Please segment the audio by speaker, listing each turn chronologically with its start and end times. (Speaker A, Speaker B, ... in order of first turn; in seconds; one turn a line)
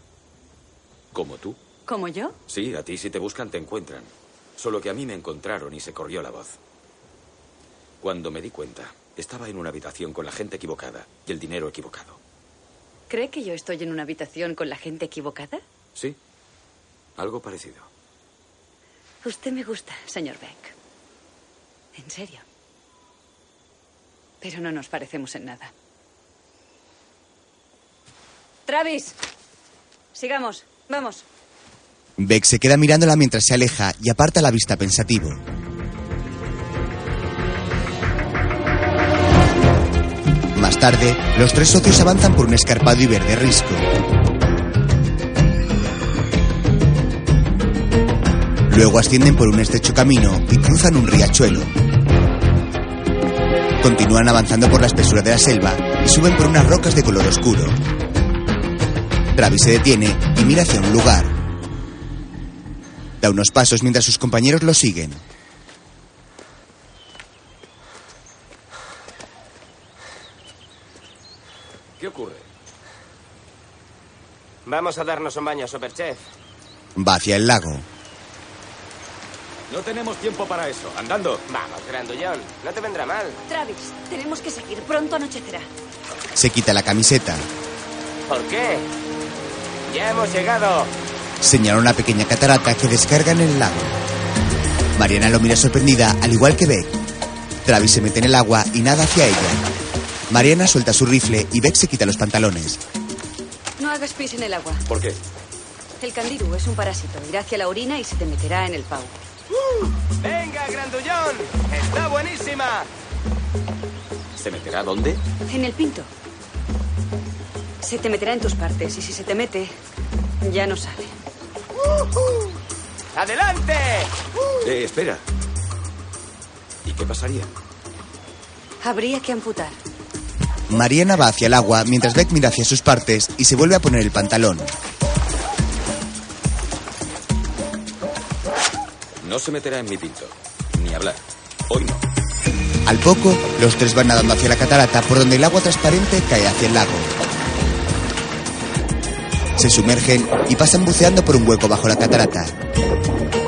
Speaker A: 1.1-1.6
Speaker B: 1.9-2.4
Speaker A: 2.5-6.6
Speaker A: 8.0-12.2
Speaker B: 13.1-15.6
Speaker A: 17.2-17.9
Speaker B: 19.2-20.7
Speaker B: 21.9-22.4
Speaker B: 24.4-25.7
Speaker B: 28.7-29.1
Speaker B: 30.1-31.2
Speaker C: 32.2-35.4
Speaker C: 40.5-43.9
Speaker C: 48.7-51.7
Speaker C: 53.8-57.8
Speaker C: 59.3-61.3
Speaker C: 63.2-65.2
Speaker A: 72.0-72.5
Speaker D: 74.7-76.2
Speaker C: 77.0-77.8
Speaker A: 79.7-81.4
Speaker D: 81.5-83.4
Speaker B: 83.5-85.7
Speaker C: 86.3-87.5
Speaker D: 88.3-88.9
Speaker D: 89.9-90.9
Speaker C: 91.4-93.9
Speaker C: 94.9-97.0
Speaker C: 97.6-99.6
Speaker C: 100.3-102.8
Speaker B: 103.8-104.8
Speaker A: 104.9-105.2
Speaker B: 106.0-109.2
Speaker D: 110.2-112.9
Speaker A: 114.3-115.2
Speaker B: 115.5-116.1
Speaker B: 117.8-119.8
Speaker B: 120.4-121.1
Speaker D: 123.1-124.1
Speaker A: 124.6-125.2
Speaker A: 126.8-127.5
Speaker B: 128.8-129.8
Speaker C: 130.7-134.7
Speaker A: 139.2-142.0
Speaker C: 142.8-147.1
Speaker C: 149.6-152.6